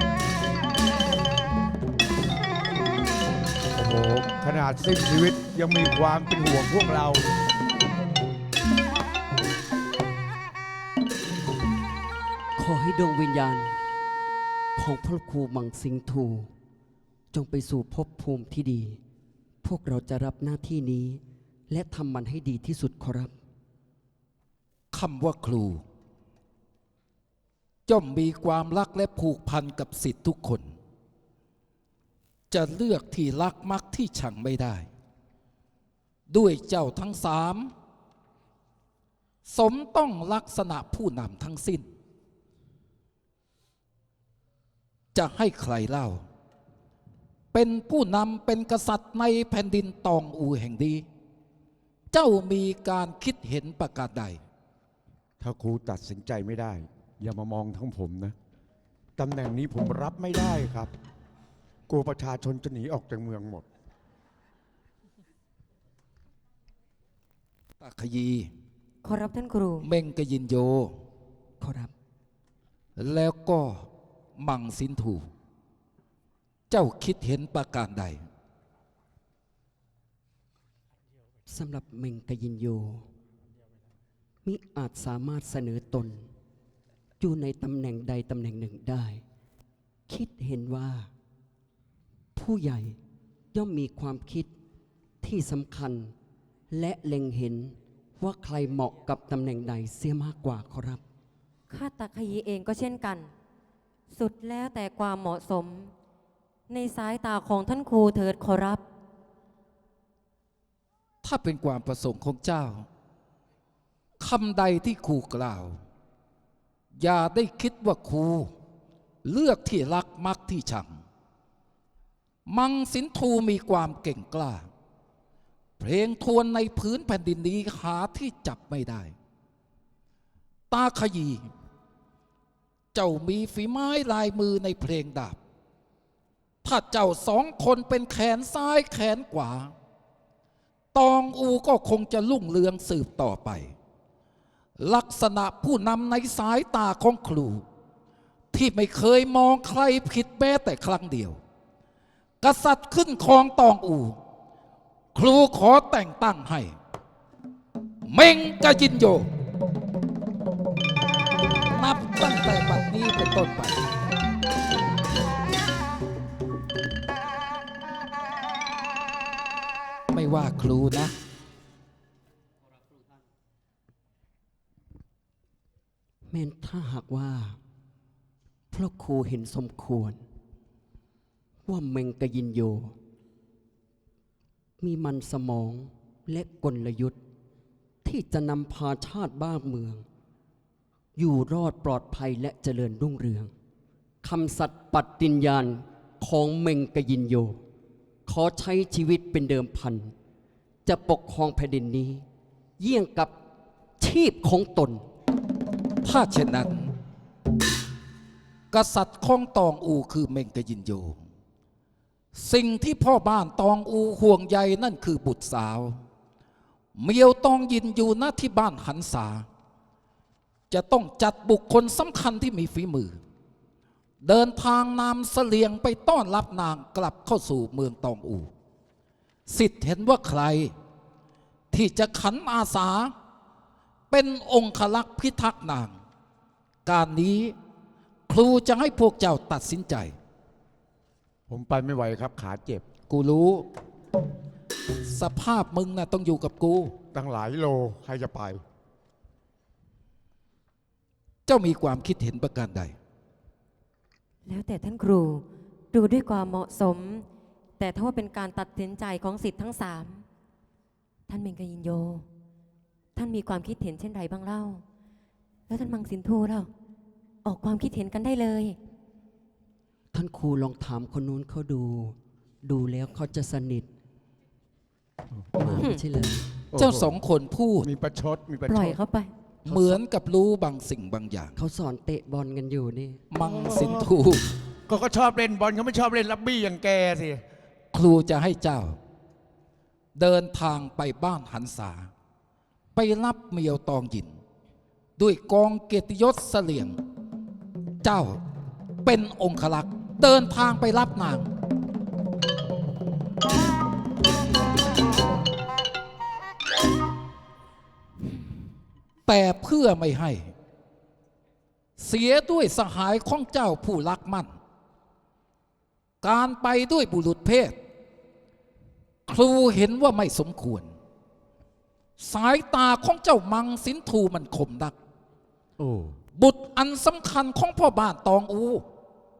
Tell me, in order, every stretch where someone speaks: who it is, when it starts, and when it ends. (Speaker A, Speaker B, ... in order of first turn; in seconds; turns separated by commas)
Speaker A: 3.8-7.2, Speaker B: 12.6-13.8, Speaker B: 14.8-16.5, Speaker B: 17.3-19.0, Speaker B: 19.6-23.3, Speaker C: 24.9-25.8, Speaker C: 27.9-30.8, Speaker C: 32.5-34.9, Speaker C: 36.3-37.7, Speaker C: 39.5-41.9, Speaker C: 45.1-46.2, Speaker C: 47.5-51.1, Speaker C: 52.1-54.4, Speaker A: 55.4-58.4, Speaker A: 59.2-60.9, Speaker A: 61.9-63.7, Speaker C: 67.8-68.5, Speaker D: 69.0-69.9, Speaker C: 69.8-71.0, Speaker B: 71.6-71.9, Speaker C: 73.0-75.3, Speaker C: 76.7-78.2, Speaker B: 81.5-83.1, Speaker B: 84.5-86.3, Speaker B: 87.2-89.2, Speaker B: 90.1-91.1, Speaker B: 92.4-93.0, Speaker B: 93.5-94.5, Speaker B: 95.2-96.1, Speaker B: 96.7-101.0, Speaker D: 101.7-103.3, Speaker D: 104.1-105.9, Speaker D: 106.7-108.8, Speaker C: 111.2-112.9, Speaker C: 114.2-115.8, Speaker C: 117.0-118.5, Speaker C: 119.2-121.0, Speaker C: 122.5-124.7, Speaker C: 125.8-129.2, Speaker C: 130.7-131.5, Speaker C: 132.9-135.4, Speaker C: 136.6-139.7, Speaker C: 140.9-143.8, Speaker C: 144.8-147.7, Speaker C: 148.5-151.4, Speaker C: 152.4-154.2, Speaker C: 155.2-156.8, Speaker C: 158.1-159.3, Speaker C: 161.7-163.9, Speaker C: 170.1-171.1, Speaker B: 176.3-177.6, Speaker B: 178.7-180.2, Speaker B: 181.7-182.9, Speaker B: 184.8-187.2, Speaker B: 188.0-190.1, Speaker B: 191.2-193.5, Speaker B: 194.2-197.6, Speaker B: 198.3-200.1, Speaker B: 200.9-202.3, Speaker B: 202.8-203.3, Speaker B: 204.0-205.1, Speaker C: 206.0-206.9, Speaker C: 208.7-211.2, Speaker C: 212.3-216.0, Speaker C: 217.0-219.5, Speaker C: 220.7-223.2, Speaker C: 224.2-228.5, Speaker C: 229.5-230.7, Speaker C: 231.7-233.2, Speaker C: 234.1-236.0, Speaker C: 236.9-237.6, Speaker C: 238.3-240.2, Speaker A: 241.5-242.8, Speaker C: 243.1-243.7, Speaker C: 245.1-246.9, Speaker A: 247.1-248.6, Speaker C: 251.5-253.0, Speaker D: 254.5-257.3, Speaker D: 257.8-260.3, Speaker D: 261.3-262.3, Speaker D: 263.1-264.8, Speaker D: 265.7-266.7, Speaker D: 267.4-268.8, Speaker B: 270.1-273.9, Speaker B: 275.6-276.4, Speaker A: 276.7-277.1, Speaker C: 276.8-277.9, Speaker A: 277.8-279.0, Speaker D: 278.7-279.3, Speaker C: 279.6-281.5, Speaker B: 281.6-283.2, Speaker C: 283.3-284.4, Speaker A: 283.4-284.1, Speaker A: 284.9-287.4, Speaker C: 287.9-289.0, Speaker C: 290.2-292.1, Speaker C: 292.9-294.4, Speaker C: 295.2-297.0, Speaker C: 298.0-298.4, Speaker C: 299.0-301.5, Speaker C: 309.3-310.5, Speaker C: 312.0-314.6, Speaker C: 316.2-317.8, Speaker C: 319.3-320.9, Speaker C: 322.2-325.0, Speaker A: 325.8-326.2, Speaker C: 326.4-328.9